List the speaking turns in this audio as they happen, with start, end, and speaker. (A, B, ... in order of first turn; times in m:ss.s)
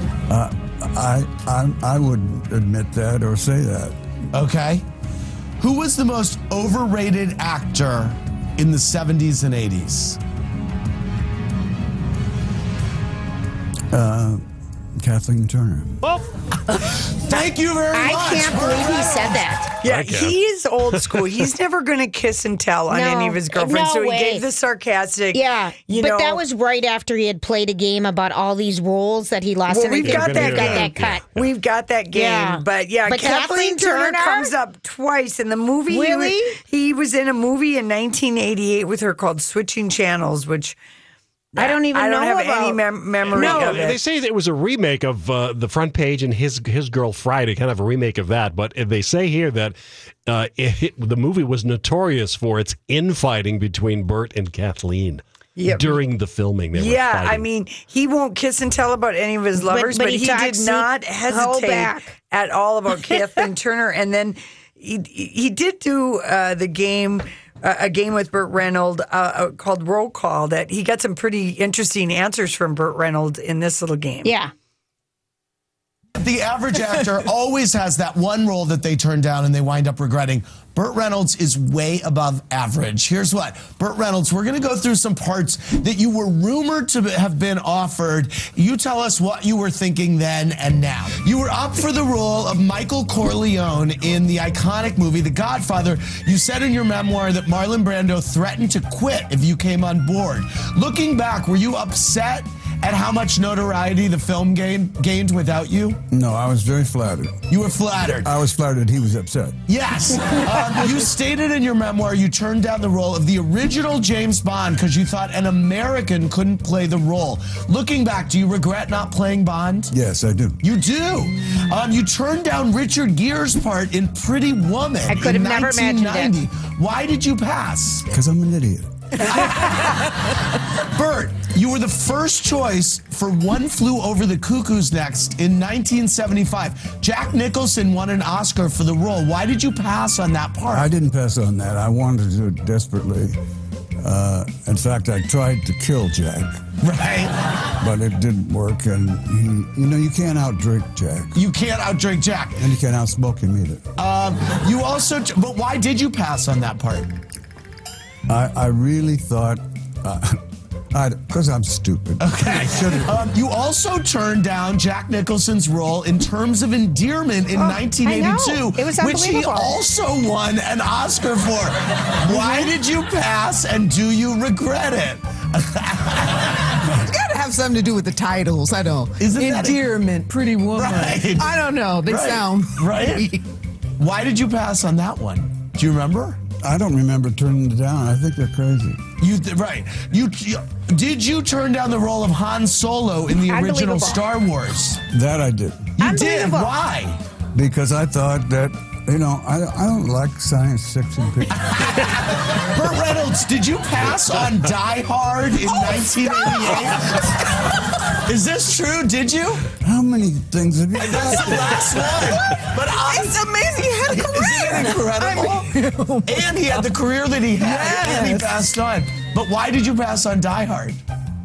0:00.3-0:03.9 A
0:04.3-0:04.8 B
0:05.6-0:10.2 B
0:13.9-0:14.4 A
0:15.0-0:16.0 A
0:17.1-0:19.5 B
0:17.9-0:19.7 C
0:19.8-0:26.4 D
0:19.8-0:20.4 E
0:20.9-0:21.2 E
0:22.9-0:24.4 C
0:25.3-0:31.2 C
0:29.7-0:40.8 D
0:30.0-0:31.5 E
0:32.1-0:34.5 C
0:35.9-0:36.6 C
0:41.5-0:44.0 D
0:41.6-0:42.8 C
0:43.3-0:49.8 E
0:43.3-0:43.8 C
0:50.3-0:57.4 E
0:55.6-0:56.0 D
0:56.7-1:14.3 D
0:59.6-1:02.1 C
1:14.2-1:14.5 C
1:16.2-1:46.0 B
1:46.1-1:47.4 A
1:47.5-1:48.3 B
1:48.2-1:49.6 A
1:49.7-1:59.9 B
1:59.9-2:00.6 A
2:00.6-2:08.0 B
2:05.1-2:06.3 C
2:08.1-2:08.9 A
2:09.2-2:10.1 B
2:10.8-2:20.9 B
2:20.7-2:23.4 A
2:24.0-2:26.6 A
2:26.8-2:27.3 B
2:27.8-2:31.4 A
2:31.3-2:32.6 B
2:32.6-2:33.9 A
2:34.0-2:37.1 B
2:38.3-2:40.4 A
2:40.9-2:43.1 A
2:42.2-2:56.5 B
2:47.6-2:49.8 C
2:52.3-2:52.6 F
2:57.0-3:03.4 F
2:59.2-2:59.9 B
3:00.7-3:03.3 B
3:04.0-3:06.4 B
3:06.6-3:09.1 A
3:09.2-3:15.0 B
3:13.5-3:14.2 C
3:15.1-3:16.0 A
3:16.0-3:17.2 B
3:16.0-3:16.7 C
3:17.5-3:22.0 A
3:21.6-3:27.3 B
3:25.7-3:26.6 F
3:28.2-3:29.6 B
3:29.8-3:32.0 A
3:31.0-3:35.7 B
3:32.3-3:36.9 F
3:36.2-3:41.0 B
3:37.6-3:38.6 F